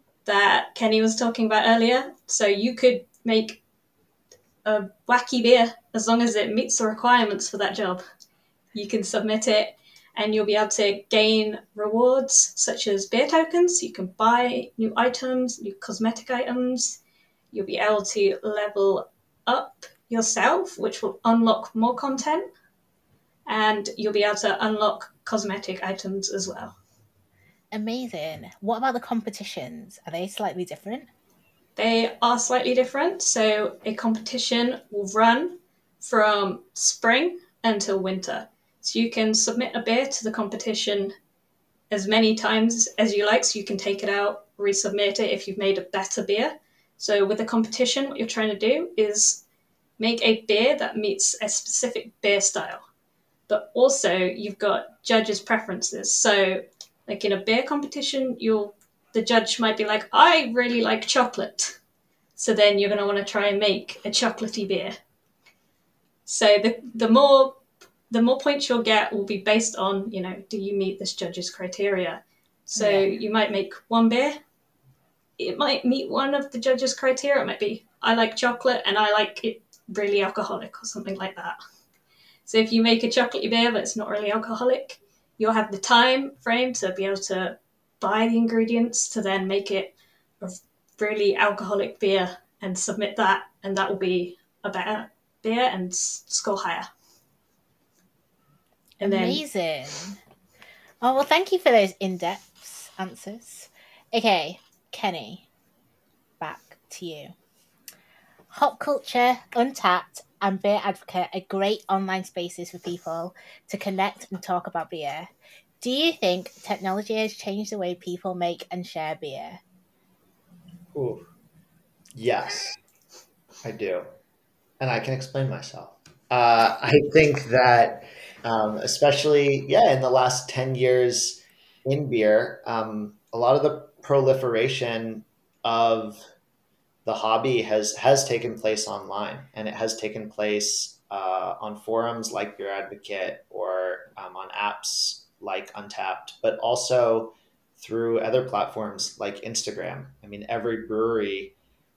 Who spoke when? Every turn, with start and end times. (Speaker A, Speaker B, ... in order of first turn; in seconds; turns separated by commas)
Speaker A: 0.2-3.6, Speaker A: 4.6-8.0, Speaker A: 8.7-17.0, Speaker A: 17.5-22.5, Speaker A: 23.5-26.8, Speaker B: 27.7-31.1, Speaker A: 31.8-41.1, Speaker A: 41.9-49.4, Speaker A: 50.0-52.8, Speaker A: 53.5-61.8, Speaker A: 62.4-64.9, Speaker A: 66.3-67.6, Speaker A: 68.1-72.2, Speaker A: 72.7-74.4, Speaker B: 72.8-73.1, Speaker A: 75.4-81.6, Speaker A: 82.5-96.9, Speaker A: 99.0-99.4, Speaker B: 99.0-100.2, Speaker B: 101.0-105.4, Speaker B: 106.4-107.3, Speaker B: 108.5-115.3, Speaker B: 115.8-119.6, Speaker C: 120.9-121.2, Speaker C: 122.1-122.8, Speaker C: 123.6-124.0, Speaker C: 124.8-136.2, Speaker C: 137.1-151.6